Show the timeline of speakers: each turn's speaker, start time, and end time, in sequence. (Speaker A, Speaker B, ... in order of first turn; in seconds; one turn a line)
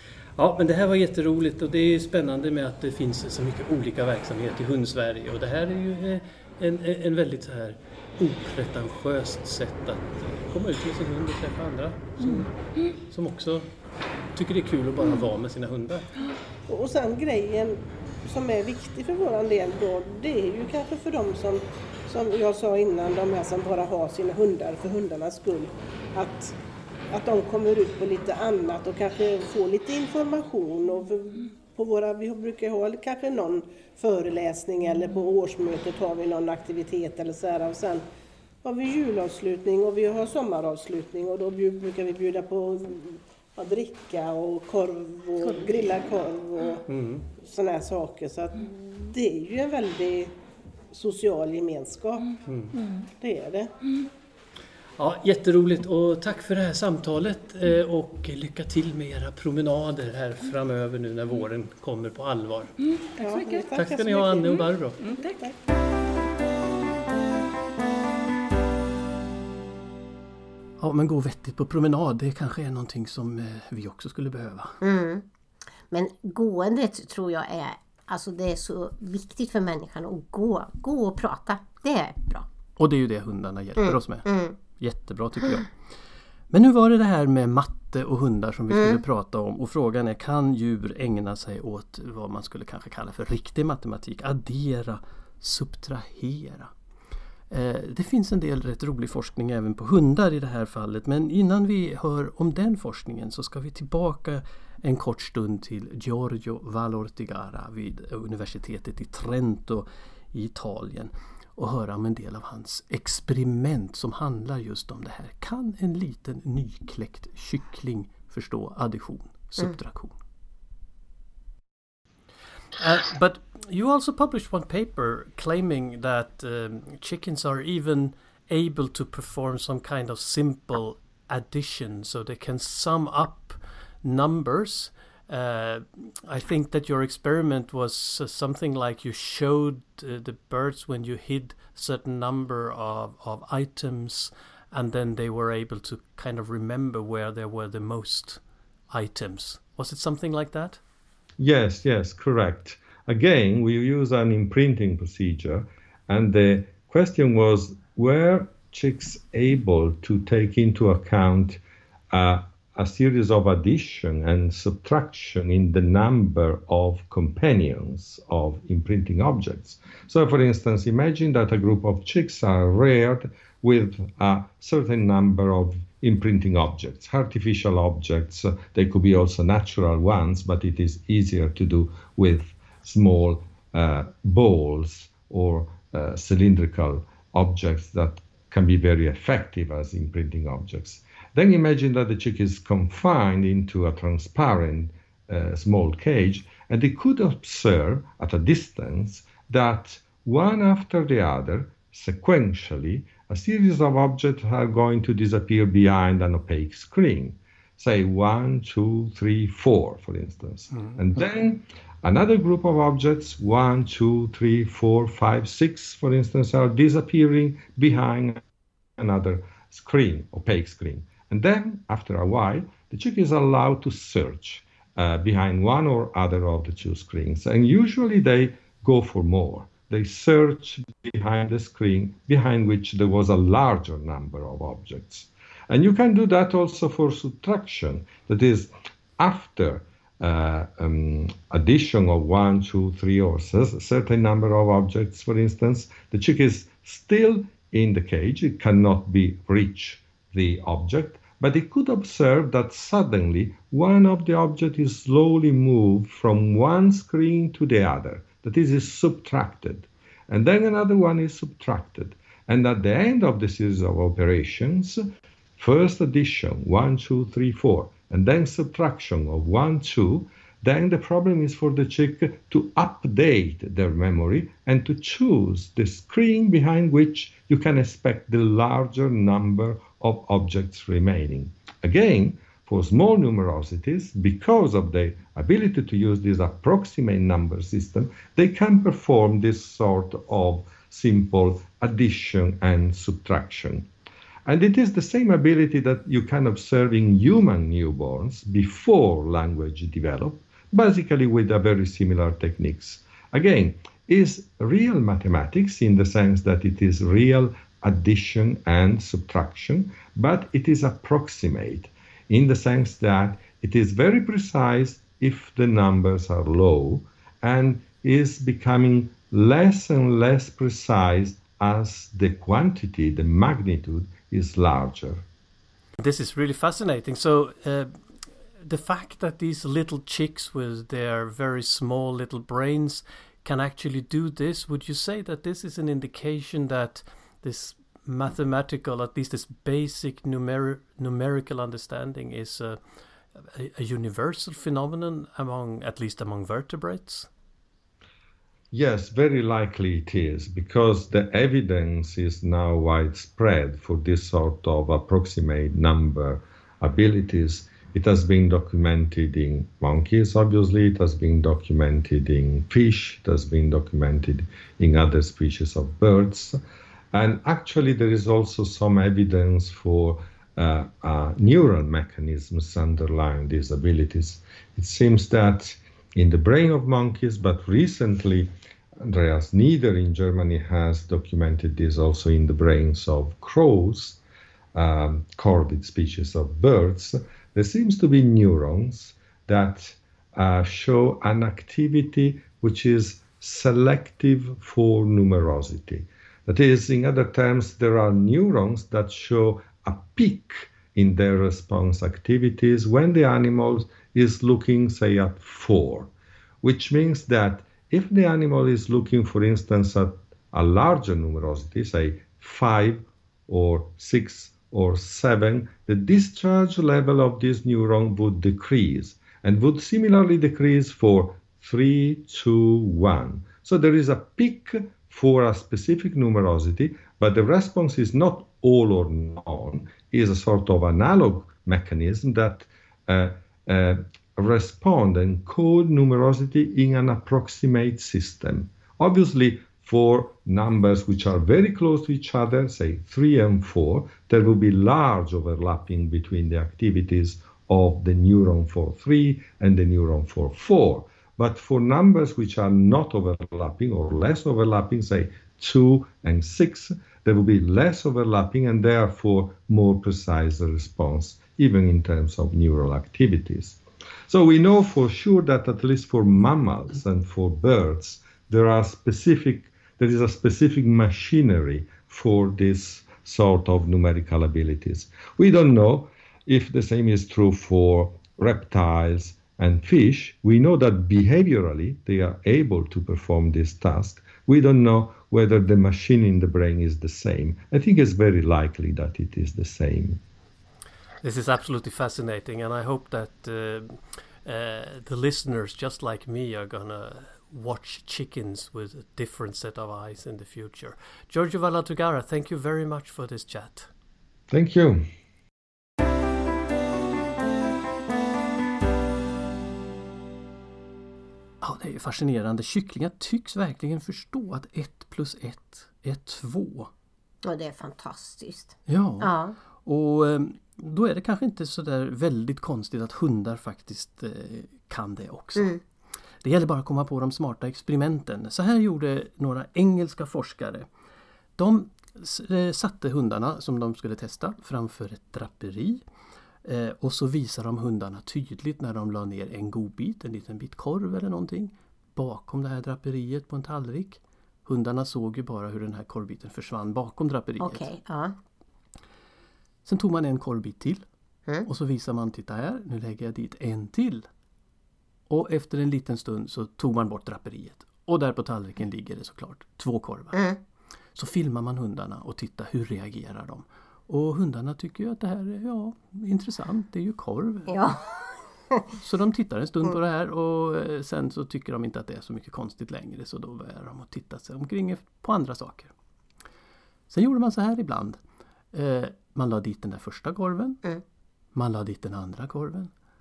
Speaker A: 0.3-13.7
Speaker A: 14.3-16.1
Speaker B: 16.7-26.6
Speaker B: 27.1-38.0
Speaker B: 38.6-50.4
Speaker A: 46.9-47.2
Speaker B: 50.9-52.4
Speaker A: 52.5-52.8
Speaker C: 52.8-53.1
Speaker B: 53.2-53.7
Speaker A: 55.0-62.7
Speaker C: 62.9-63.7
Speaker B: 63.2-65.5
Speaker A: 63.7-65.0
Speaker C: 64.5-65.4
Speaker A: 70.8-74.8
Speaker D: 74.8-75.2
Speaker D: 75.9-82.5
Speaker A: 82.8-85.7
Speaker D: 83.8-84.5
Speaker A: 86.5-96.7
Speaker D: 88.7-89.0
Speaker A: 97.5-120.2
Speaker A: 122.8-150.8
Speaker E: 151.4-161.6
Speaker E: 162.1-218.4
Speaker E: 219.0-265.0
Speaker E: 265.6-293.9
Speaker E: 294.4-325.2
Speaker A: 326.0-328.0
Speaker A: 328.6-342.8
Speaker A: 343.4-347.3
Speaker E: 348.7-366.6
Speaker E: 367.1-378.5
Speaker E: 379.0-384.2
Speaker E: 384.7-406.1
Speaker E: 406.6-490.2
Speaker A: 491.2-503.9
Speaker E: 504.5-505.0
Speaker A: 511.6-516.9
Speaker D: 517.4-519.5
Speaker A: 518.9-525.8
Speaker A: 526.4-530.9
Speaker A: 531.6-536.0
Speaker A: 536.6-547.9
Speaker D: 547.6-548.4
Speaker A: 549.8-551.0
Speaker A: 551.6-554.3
Speaker A: 555.3-560.5
Speaker D: 560.3-560.6
Speaker A: 561.1-567.8
Speaker D: 567.7-568.9
Speaker A: 569.0-575.9
Speaker A: 577.1-578.2
Speaker A: 578.7-580.8
Speaker A: 581.5-582.9